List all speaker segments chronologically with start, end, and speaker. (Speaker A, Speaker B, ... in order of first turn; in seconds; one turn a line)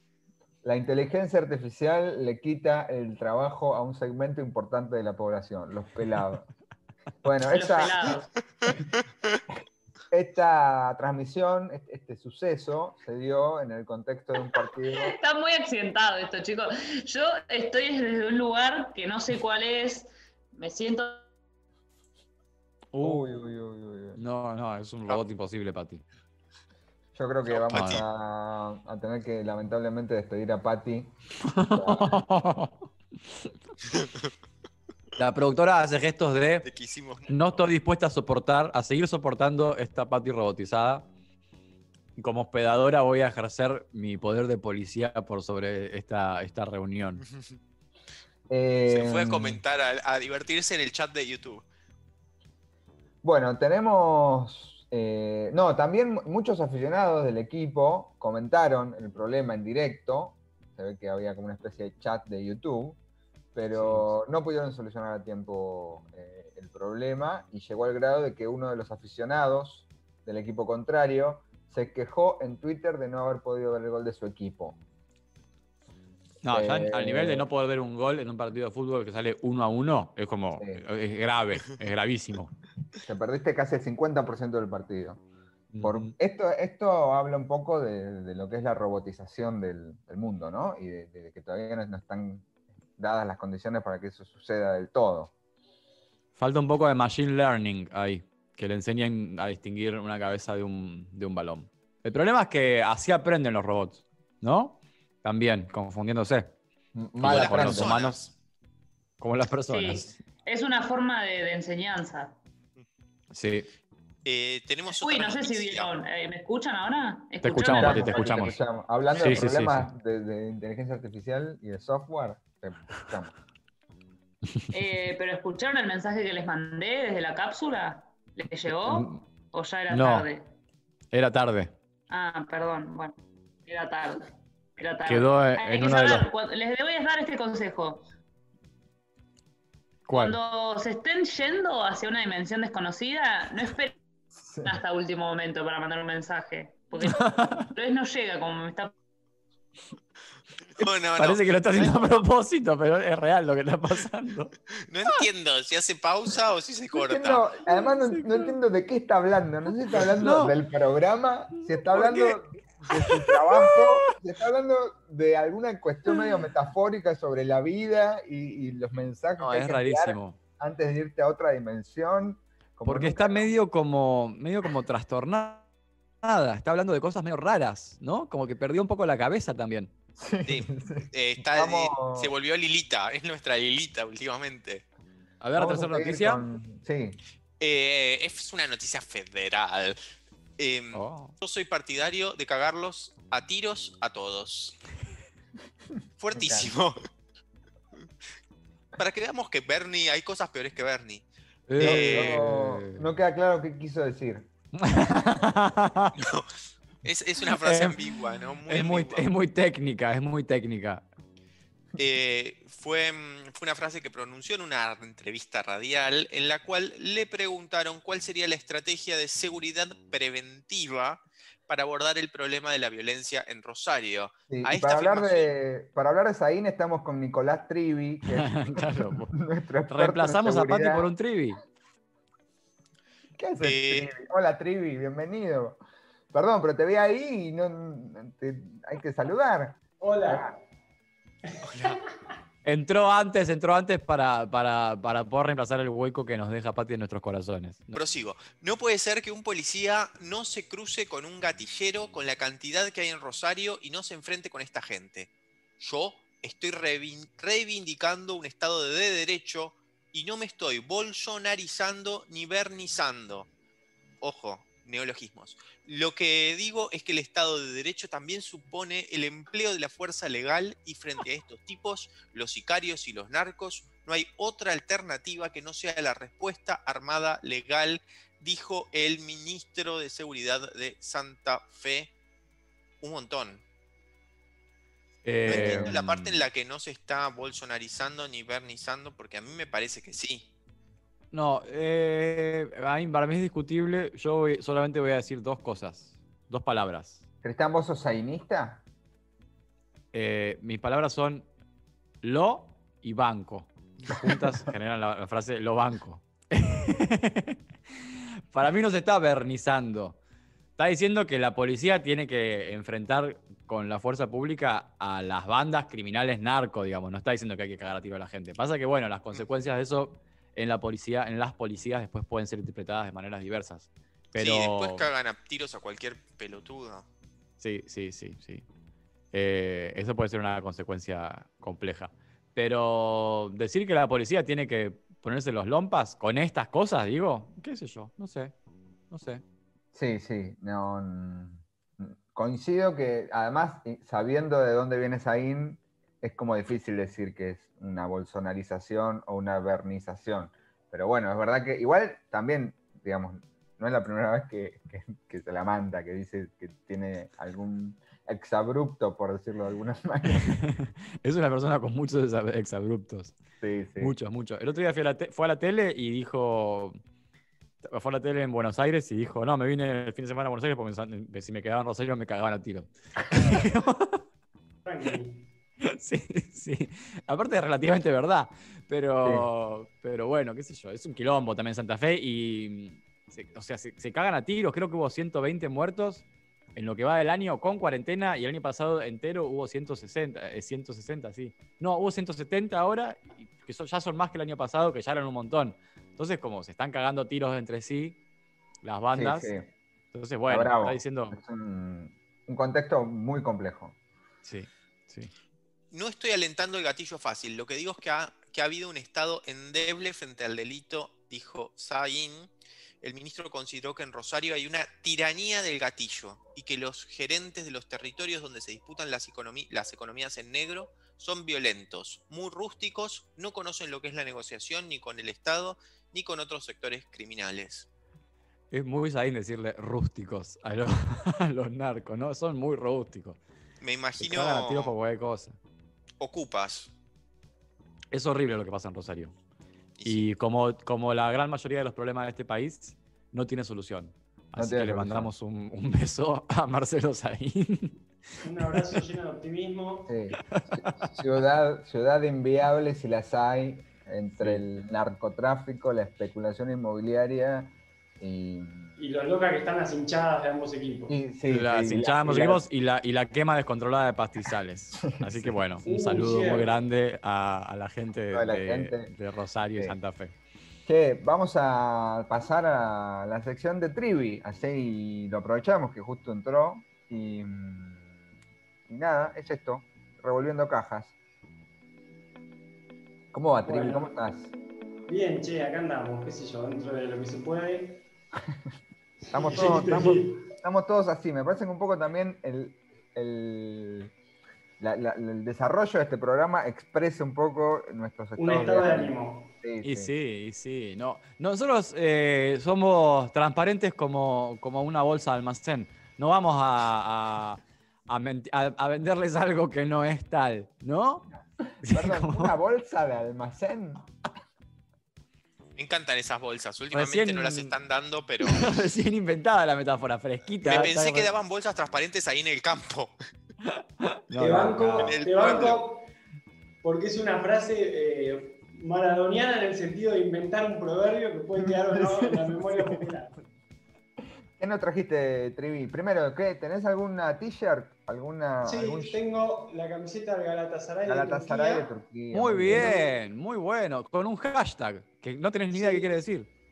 Speaker A: 0.6-6.5
Speaker A: 7.2-8.2
Speaker B: 7.5-8.3
Speaker A: 10.1-15.1
Speaker B: 14.9-21.3
Speaker C: 22.9-23.3
Speaker A: 23.0-24.2
Speaker C: 24.2-26.0
Speaker A: 27.1-31.1
Speaker D: 27.5-28.0
Speaker C: 27.7-28.0
Speaker C: 31.5-32.8
Speaker A: 31.7-32.1
Speaker D: 33.9-34.3
Speaker C: 35.2-36.6
Speaker D: 36.6-37.6
Speaker C: 37.3-41.1
Speaker C: 42.2-47.2
Speaker A: 48.5-49.6
Speaker D: 48.9-51.6
Speaker A: 53.2-63.0
Speaker A: 63.5-74.8
Speaker C: 63.7-64.2
Speaker C: 76.4-82.5
Speaker A: 76.5-77.5
Speaker A: 80.6-80.8
Speaker A: 83.0-85.2
Speaker C: 85.7-86.1
Speaker A: 85.8-95.3
Speaker C: 96.4-106.5
Speaker A: 107.0-108.0
Speaker C: 107.2-108.2
Speaker D: 107.2-108.3
Speaker C: 109.2-110.1
Speaker B: 109.7-112.3
Speaker C: 113.3-113.7
Speaker D: 114.2-115.9
Speaker B: 115.0-118.5
Speaker C: 117.4-118.6
Speaker A: 117.7-123.3
Speaker C: 119.2-119.9
Speaker B: 124.7-130.5
Speaker C: 128.7-129.2
Speaker C: 129.9-130.3
Speaker C: 131.1-131.7
Speaker B: 132.1-133.2
Speaker B: 133.7-138.1
Speaker C: 135.1-136.2
Speaker C: 140.1-140.4
Speaker B: 140.2-144.0
Speaker A: 144.4-144.7
Speaker B: 144.6-148.9
Speaker C: 147.0-147.7
Speaker D: 150.8-152.2
Speaker C: 150.8-154.5
Speaker D: 154.8-157.4
Speaker A: 157.1-173.5
Speaker C: 157.8-158.5
Speaker C: 160.0-160.5
Speaker C: 161.9-162.3
Speaker C: 163.1-163.8
Speaker C: 169.4-170.4
Speaker C: 172.8-175.7
Speaker C: 176.2-179.9
Speaker A: 180.2-182.3
Speaker D: 180.5-184.8
Speaker C: 185.4-186.4
Speaker A: 185.6-187.2
Speaker D: 187.6-190.0
Speaker D: 190.6-194.8
Speaker C: 190.9-191.3
Speaker D: 196.2-197.0
Speaker A: 196.3-196.7
Speaker D: 199.0-202.4
Speaker C: 201.7-203.1
Speaker A: 201.8-204.5
Speaker C: 204.8-206.1
Speaker D: 206.2-206.5
Speaker D: 207.0-209.3
Speaker C: 207.6-208.0
Speaker C: 208.7-211.1
Speaker D: 212.0-225.5
Speaker A: 224.5-231.1
Speaker C: 228.3-229.3
Speaker C: 229.9-231.6
Speaker A: 233.4-235.8
Speaker D: 233.6-234.1
Speaker A: 236.3-240.5
Speaker E: 240.0-240.5
Speaker C: 242.6-248.0
Speaker D: 247.9-263.5
Speaker D: 264.2-282.1
Speaker D: 283.0-283.6
Speaker C: 285.2-286.4
Speaker D: 285.4-290.5
Speaker A: 285.5-285.9
Speaker C: 291.3-297.2
Speaker A: 297.4-298.8
Speaker C: 300.1-301.5
Speaker C: 302.2-307.6
Speaker C: 308.5-310.2
Speaker C: 310.8-325.1
Speaker D: 324.4-327.1
Speaker C: 327.6-328.6
Speaker C: 329.3-338.5
Speaker C: 339.1-339.4
Speaker A: 339.9-360.5
Speaker C: 360.3-363.4
Speaker A: 363.6-364.1
Speaker C: 364.0-367.0
Speaker C: 367.8-374.2
Speaker E: 374.9-375.5
Speaker C: 375.8-398.2
Speaker C: 398.8-399.5
Speaker A: 399.1-399.7
Speaker C: 400.1-401.4
Speaker A: 400.5-403.9
Speaker C: 404.4-405.3
Speaker D: 405.9-427.9
Speaker C: 428.7-433.4
Speaker D: 433.8-434.9
Speaker C: 434.2-435.6
Speaker D: 436.2-436.9
Speaker C: 438.1-439.3
Speaker D: 440.0-440.2
Speaker C: 440.1-448.0
Speaker A: 444.6-445.3
Speaker E: 448.4-450.1
Speaker A: 450.1-459.0
Speaker C: 450.5-450.8
Speaker E: 459.0-461.1
Speaker A: 461.1-462.6
Speaker C: 461.5-470.4
Speaker A: 465.0-465.6
Speaker E: 465.8-466.8
Speaker A: 468.3-469.1
Speaker A: 470.9-478.2
Speaker A: 478.9-481.1
Speaker A: 483.3-484.5
Speaker E: 483.6-484.1
Speaker E: 485.1-488.0
Speaker E: 489.2-490.5
Speaker A: 489.3-494.1
Speaker A: 494.8-500.1
Speaker E: 498.4-499.5
Speaker C: 499.8-511.3
Speaker A: 511.7-514.1
Speaker C: 511.8-512.5
Speaker D: 515.8-518.7
Speaker C: 516.9-517.8
Speaker C: 518.5-521.3
Speaker D: 520.6-523.1
Speaker C: 524.3-525.2
Speaker E: 524.3-526.1
Speaker D: 525.0-525.8
Speaker E: 526.8-533.3
Speaker A: 531.6-533.0
Speaker A: 534.6-539.2
Speaker E: 538.6-541.9
Speaker A: 541.1-542.9
Speaker C: 542.3-546.5
Speaker E: 542.7-543.1
Speaker E: 545.7-546.1